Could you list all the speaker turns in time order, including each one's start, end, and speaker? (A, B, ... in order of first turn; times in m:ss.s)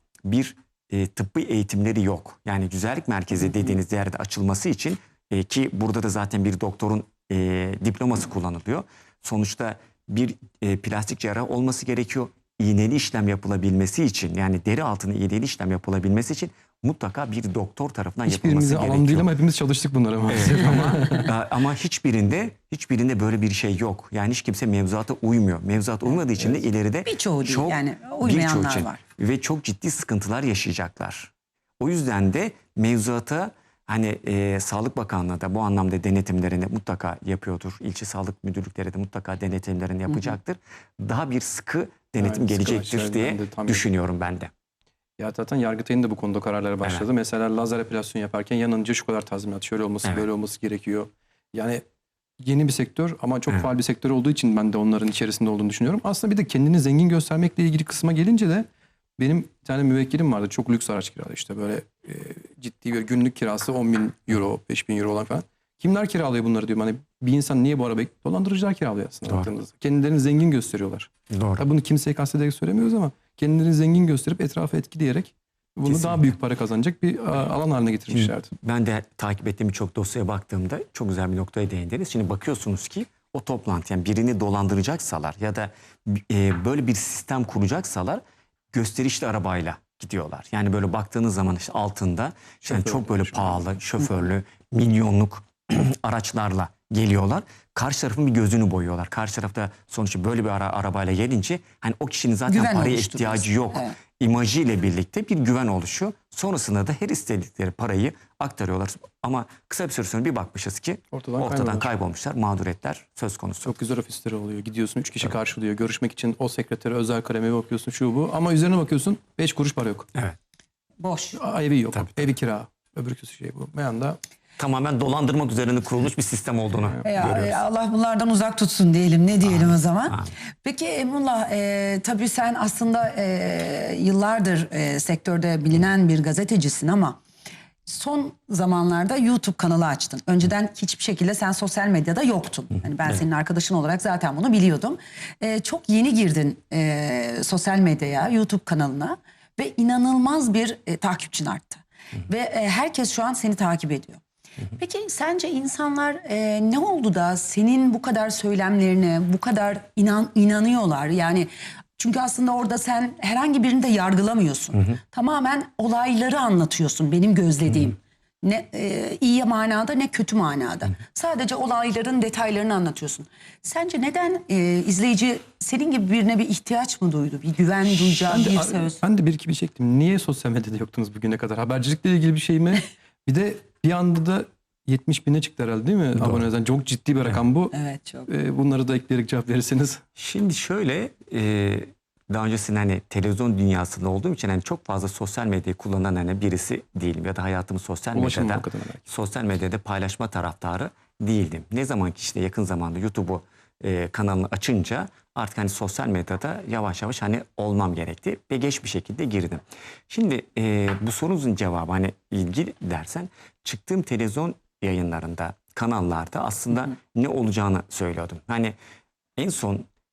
0:00.2-0:19.3 A
0:18.3-0:21.3 B
0:20.3-0:44.5 A
0:27.0-0:29.0 C
0:42.2-0:43.8 B
0:45.2-0:51.8 B
0:52.4-0:58.6 B
0:59.2-1:18.5 B
1:11.3-1:11.6 A
1:15.8-1:16.4 A
1:18.1-1:28.2 A
1:28.7-1:53.7 A
1:32.6-1:33.6 B
1:42.5-1:44.0 C
1:51.1-1:51.8 B
1:53.6-2:00.1 B
2:01.0-2:01.4 C
2:01.4-2:04.2 B
2:01.9-2:02.3 A
2:04.6-2:07.6 A
2:07.0-2:17.2 C
2:09.4-2:10.3 A
2:17.8-2:34.2 C
2:34.7-2:59.0 C
2:58.2-3:07.7 B
3:06.2-3:06.5 A
3:07.7-3:08.3 C
3:08.3-3:10.0 B
3:10.2-3:38.7 A
3:18.1-3:19.0 B
3:39.4-3:39.9 A